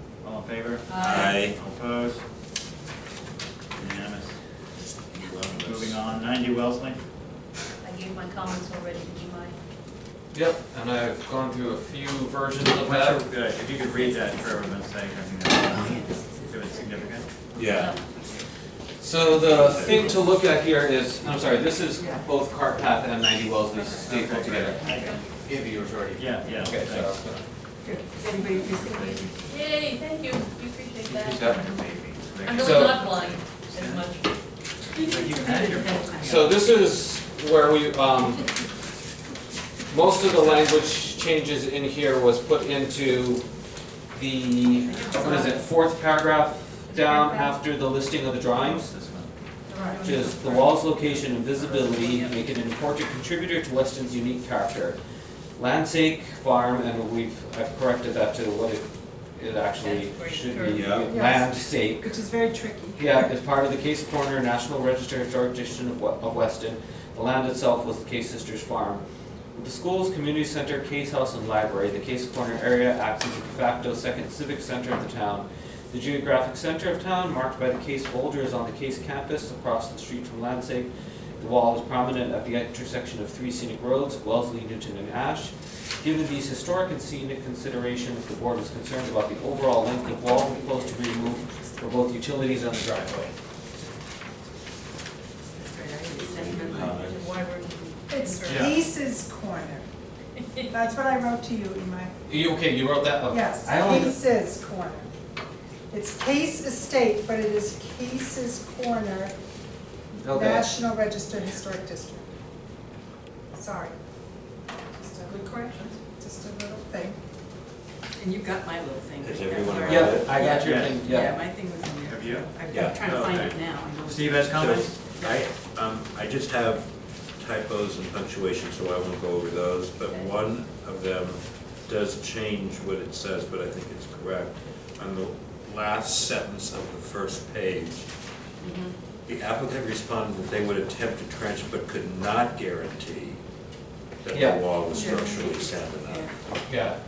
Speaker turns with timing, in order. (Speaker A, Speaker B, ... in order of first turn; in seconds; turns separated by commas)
Speaker A: 0.2-2.2, Speaker B: 0.9-1.5, Speaker C: 0.9-1.6, Speaker A: 3.7-4.3, Speaker D: 5.1-5.6, Speaker C: 5.2-6.0, Speaker A: 5.5-7.0, Speaker B: 7.8-9.5, Speaker E: 10.3-13.2, Speaker A: 12.6-17.3, Speaker D: 13.8-14.8, Speaker D: 15.4-17.3, Speaker C: 17.6-18.0, Speaker B: 17.6-18.1, Speaker E: 19.0-27.4, Speaker C: 19.4-20.1, Speaker D: 19.5-20.2, Speaker D: 22.0-22.2, Speaker A: 23.9-25.2, Speaker D: 24.8-25.1, Speaker B: 24.9-25.2, Speaker A: 26.1-27.2, Speaker D: 27.8-29.4, Speaker B: 28.2-31.8, Speaker A: 28.7-29.4, Speaker A: 31.0-34.0, Speaker B: 32.4-34.3, Speaker E: 32.6-33.0, Speaker D: 34.9-36.7, Speaker A: 35.0-36.4, Speaker E: 36.2-38.5, Speaker E: 39.9-43.4, Speaker A: 40.4-40.8, Speaker E: 44.1-48.9, Speaker D: 44.9-45.6, Speaker B: 46.9-47.6, Speaker A: 48.5-49.3, Speaker B: 49.7-52.4, Speaker F: 49.7-50.1, Speaker E: 50.0-55.0, Speaker E: 55.5-62.1, Speaker B: 59.8-61.0, Speaker C: 60.7-61.1, Speaker F: 61.0-63.1, Speaker E: 63.0-69.0, Speaker E: 69.5-93.3, Speaker D: 89.8-91.8, Speaker D: 95.5-97.1, Speaker C: 96.1-97.3, Speaker B: 96.6-98.7, Speaker F: 98.1-99.9, Speaker A: 98.4-98.8, Speaker B: 100.4-100.7, Speaker F: 100.7-102.1, Speaker E: 102.3-104.2, Speaker F: 103.3-105.1, Speaker F: 105.9-109.3, Speaker E: 110.2-110.7, Speaker F: 110.3-112.3, Speaker F: 113.5-113.9, Speaker F: 114.9-117.2, Speaker B: 115.3-115.9, Speaker D: 118.1-125.4, Speaker C: 119.2-120.3, Speaker E: 119.8-121.4, Speaker A: 120.4-121.0, Speaker A: 122.0-125.0, Speaker C: 122.7-123.6, Speaker C: 124.5-138.1, Speaker D: 138.6-138.9, Speaker C: 139.2-143.4, Speaker C: 144.2-146.3, Speaker E: 144.3-144.6, Speaker B: 144.9-145.3, Speaker D: 144.9-146.3, Speaker E: 146.7-147.0